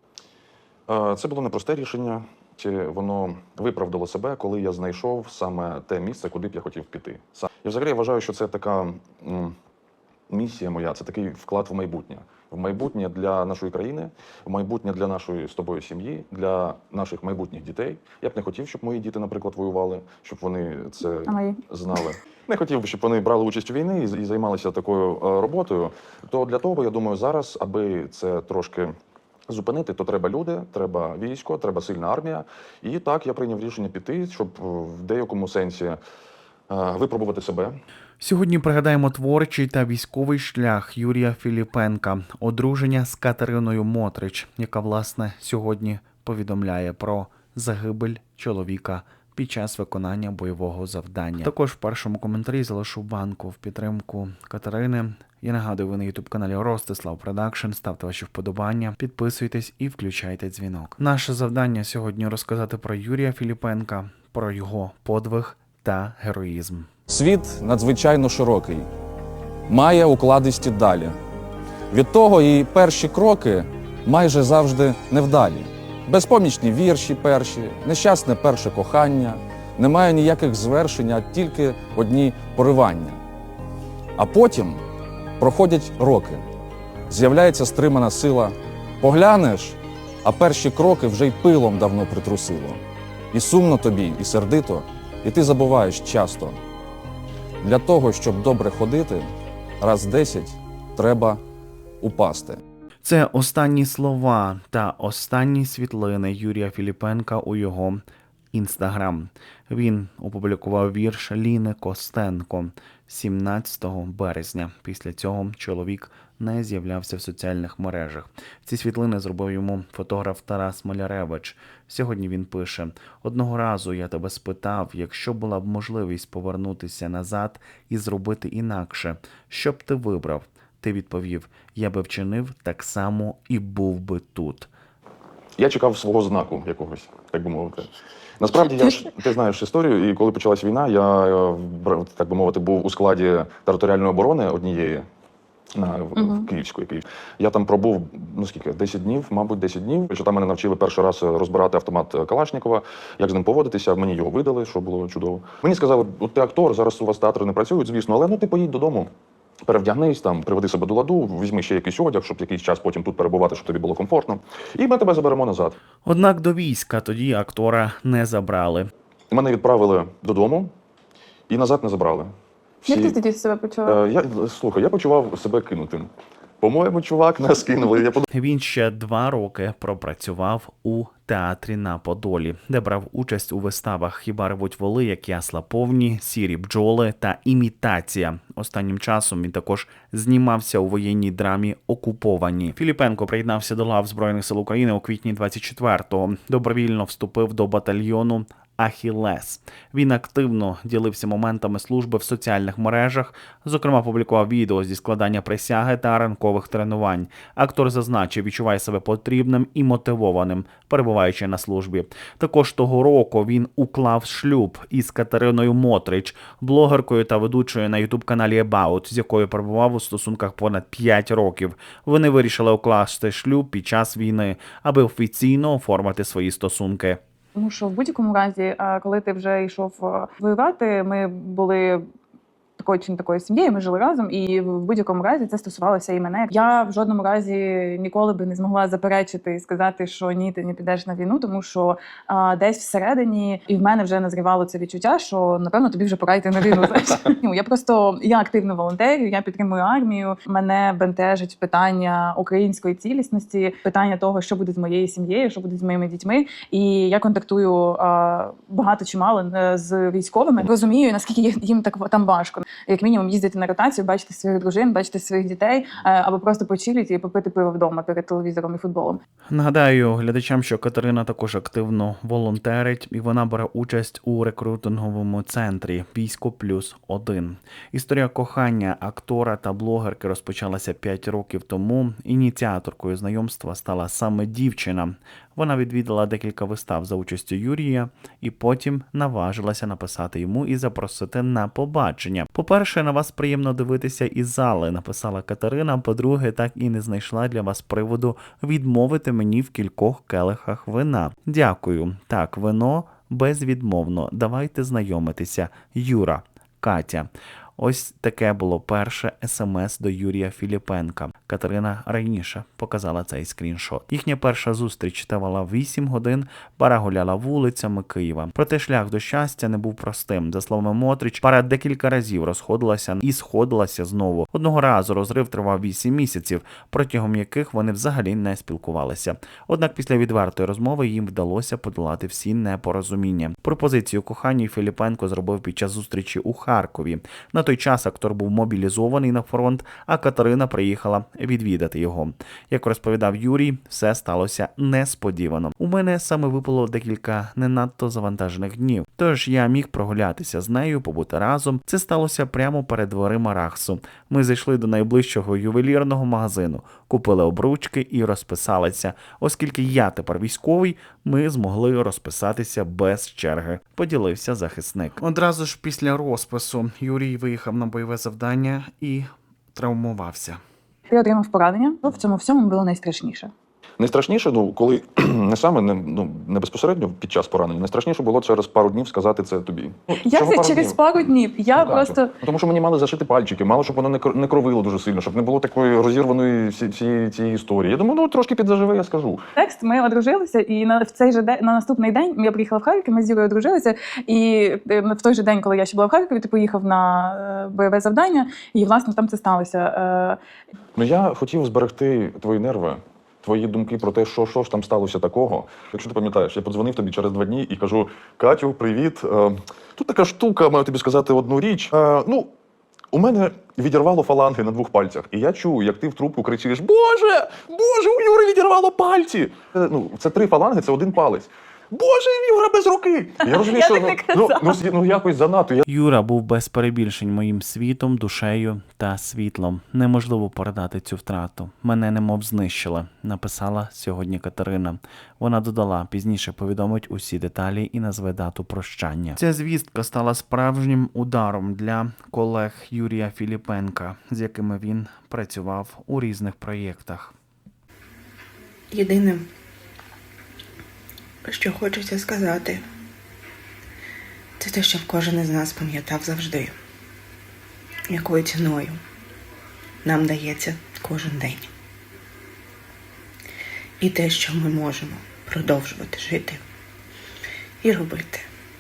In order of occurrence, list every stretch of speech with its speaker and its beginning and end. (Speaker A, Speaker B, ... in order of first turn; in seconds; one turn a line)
Speaker A: 0.9-9.5
Speaker A: 10.3-28.9
Speaker B: 21.3-21.6
Speaker A: 29.5-36.0
Speaker A: 36.7-37.7
Speaker C: 38.2-66.9
Speaker D: 67.1-68.9
Speaker D: 69.7-71.2
Speaker D: 71.9-83.2
Speaker D: 84.2-84.8
Speaker D: 85.4-86.4
Speaker D: 87.1-92.8
Speaker D: 93.3-96.6
Speaker D: 97.6-99.3
Speaker D: 99.8-101.4
Speaker D: 102.0-102.6
Speaker C: 103.0-108.0
Speaker C: 108.5-134.7
Speaker A: 135.6-137.9
Speaker A: 138.4-145.0
Speaker A: 145.8-159.1
Speaker B: 146.2-146.5
Speaker A: 159.7-165.8
Speaker C: 166.1-168.9
Speaker A: 169.3-170.7
Speaker A: 171.5-172.3
Speaker B: 172.8-174.0
Speaker A: 172.9-173.2
Speaker A: 173.9-176.1
Speaker A: 176.6-178.2
Speaker C: 178.3-227.2
Speaker B: 227.6-232.0
Speaker B: 232.8-269.2
Speaker C: 269.5-370.6
Speaker B: 371.1-373.5
Speaker A: 374.0-381.0
Speaker B: 380.2-382.4
Speaker A: 381.8-389.4
Speaker B: 389.6-400.4
Speaker A: 401.0-412.5
Speaker A: 413.1-425.9
Speaker B: 423.4-424.8
Speaker C: 425.9-447.3
Speaker E: 448.9-449.5
Speaker E: 451.4-452.9
Speaker E: 454.6-456.8
Speaker E: 458.1-459.0
Speaker E: 460.0-461.7
Speaker E: 464.0-466.6
Speaker E: 467.8-468.5